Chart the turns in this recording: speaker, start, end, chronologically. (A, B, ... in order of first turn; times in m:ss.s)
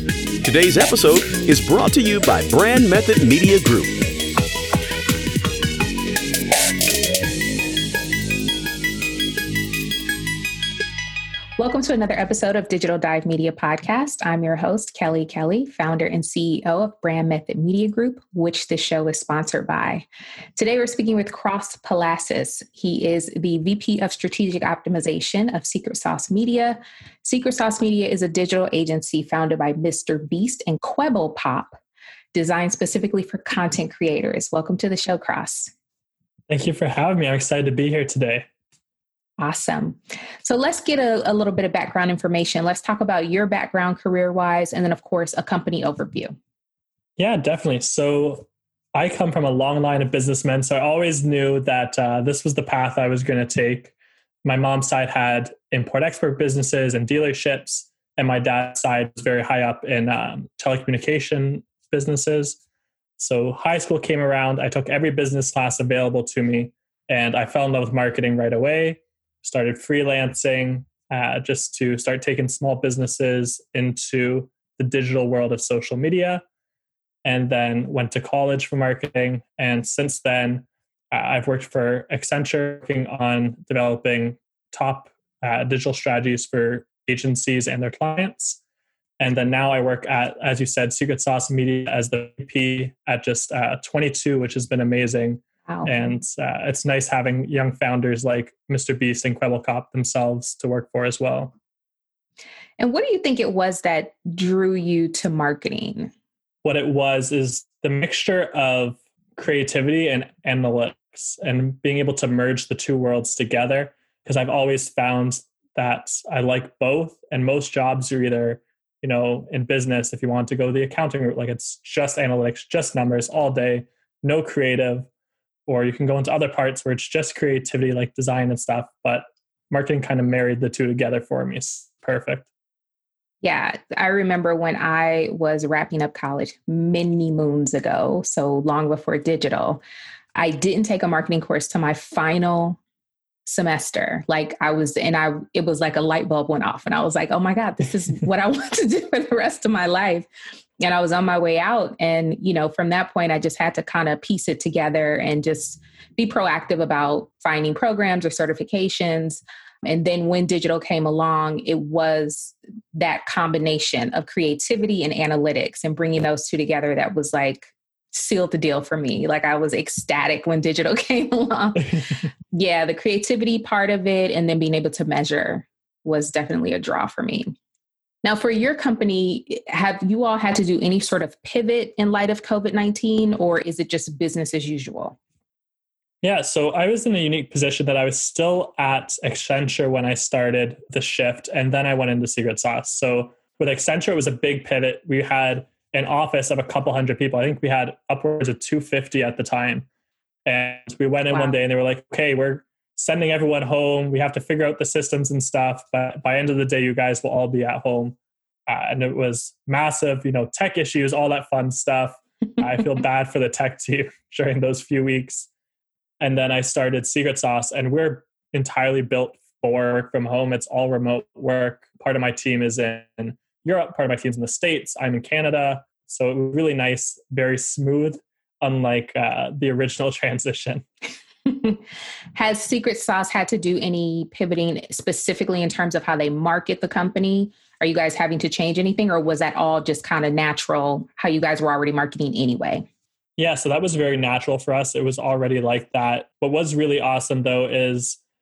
0:00.4-0:04.0 A
0:11.6-0:20.1 B
0:20.6-0:31.8 B
0:32.3-0:35.7 B
0:36.5-0:38.4 C
0:39.4-0:46.4 B
0:47.2-0:53.9 C
0:54.4-1:02.6 C
1:03.2-1:16.4 C
1:17.2-1:28.6 C
1:29.2-1:41.5 C
1:35.7-1:35.9 B
1:42.8-1:46.1 B
1:46.6-2:05.1 C
2:05.7-2:12.5 C
2:13.4-2:19.8 B
2:20.4-2:22.8 B
2:23.4-2:30.3 B
2:30.8-2:52.0 B
2:52.5-2:57.5 B
2:58.2-3:05.2 B
3:06.2-3:19.9 C
3:20.5-3:28.2 C
3:21.3-3:21.6 B
3:28.7-3:35.5 C
3:36.2-3:50.8 C
3:51.5-3:51.8 B
3:52.4-4:02.8 B
4:03.4-4:08.2 C